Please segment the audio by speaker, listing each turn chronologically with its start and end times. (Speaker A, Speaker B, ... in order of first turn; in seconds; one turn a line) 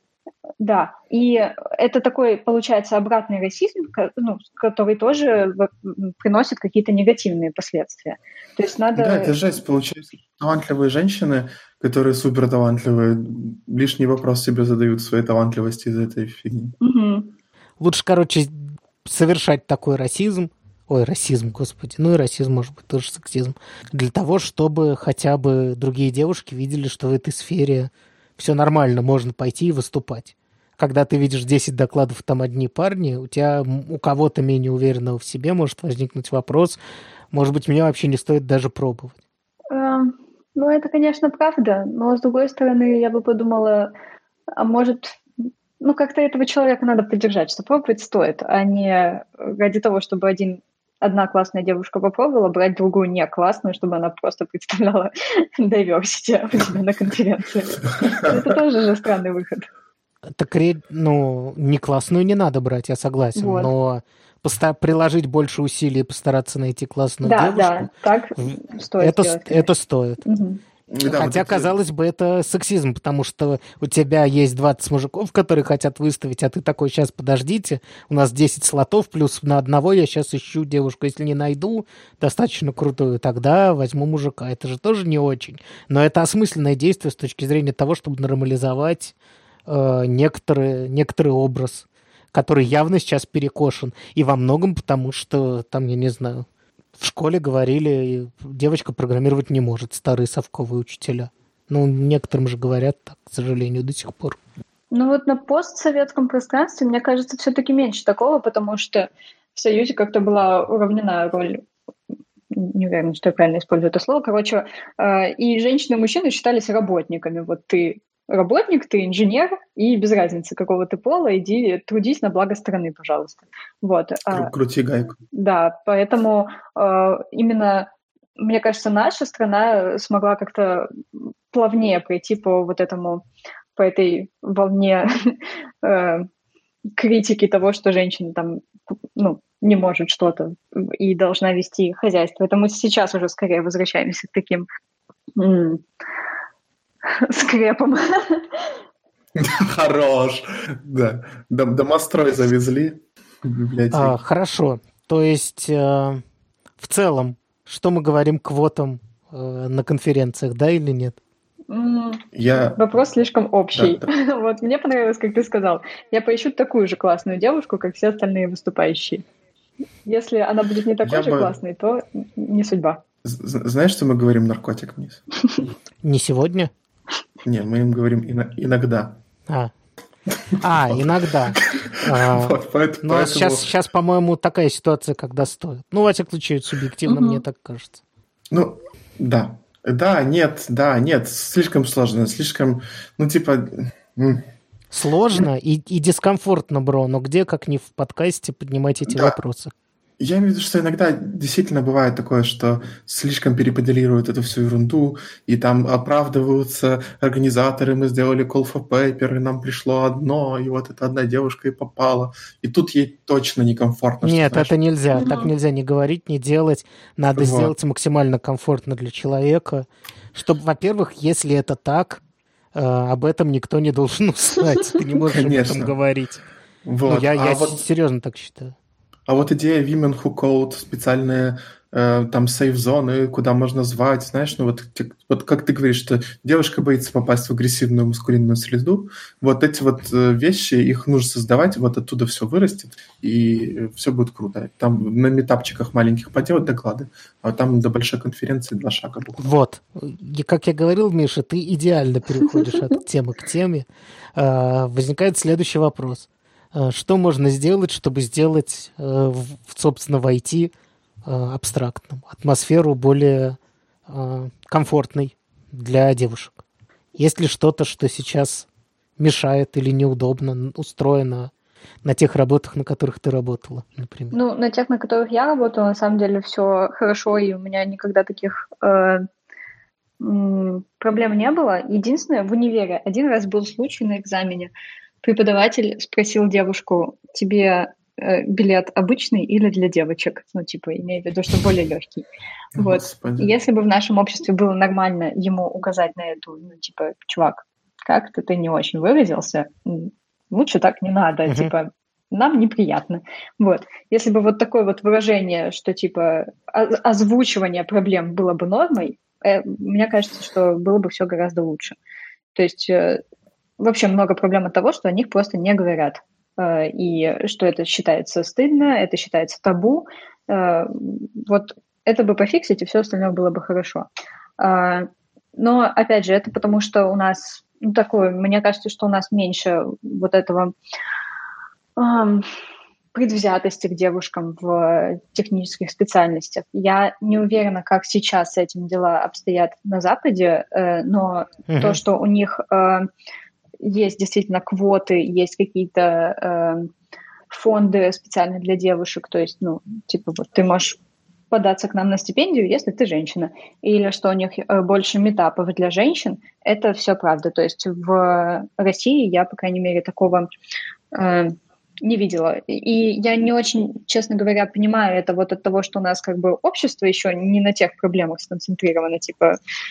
Speaker A: 0.6-9.3
Speaker B: 8.9-16.8
Speaker A: 16.8-17.3
Speaker C: 17.8-36.8
Speaker C: 37.3-39.2
Speaker A: 39.7-43.9
Speaker A: 44.6-45.2
Speaker A: 45.8-59.7
Speaker C: 60.4-70.2
Speaker A: 63.4-63.7
Speaker A: 67.2-69.7
Speaker A: 70.2-70.6
Speaker B: 70.9-71.7
Speaker C: 71.1-89.1
Speaker C: 89.7-96.5
Speaker C: 97.0-104.4
Speaker A: 104.9-111.6
Speaker A: 112.5-124.5
Speaker B: 124.3-125.2
Speaker A: 125.3-133.2
Speaker A: 133.8-136.3
Speaker A: 137.0-138.6
Speaker A: 139.2-144.7
Speaker A: 145.4-145.8
Speaker A: 147.1-148.7
Speaker B: 149.4-154.2
Speaker C: 153.9-156.2
Speaker C: 156.8-161.2
Speaker A: 161.7-169.2
Speaker B: 162.3-162.8
Speaker B: 163.7-164.1
Speaker A: 170.1-173.0
Speaker B: 171.0-171.6
Speaker B: 173.2-175.2
Speaker C: 176.0-176.7
Speaker B: 177.4-179.2
Speaker B: 180.5-183.7
Speaker C: 180.6-188.0
Speaker A: 187.1-187.4
Speaker B: 188.5-194.4
Speaker C: 194.9-199.7
Speaker B: 199.1-199.4
Speaker B: 200.2-214.7
Speaker C: 214.2-222.2
Speaker A: 215.1-215.5
Speaker B: 217.3-217.7
Speaker C: 222.7-226.4
Speaker B: 225.3-225.9
Speaker B: 226.8-227.8
Speaker C: 227.1-228.8
Speaker B: 229.3-249.5
Speaker C: 249.4-260.7
Speaker C: 261.2-266.6
Speaker C: 267.2-268.7
Speaker C: 269.2-271.5
Speaker C: 272.0-274.4
Speaker A: 274.3-279.3
Speaker A: 280.2-284.7
Speaker A: 285.2-292.3
Speaker B: 292.8-293.6
Speaker A: 292.8-312.0
Speaker A: 312.6-313.2
Speaker A: 313.8-324.1
Speaker A: 324.6-330.7
Speaker A: 332.0-332.5
Speaker A: 333.1-343.1
Speaker C: 341.7-342.0
Speaker A: 343.8-346.9
Speaker A: 347.5-351.0
Speaker A: 351.5-360.5
Speaker A: 361.1-369.6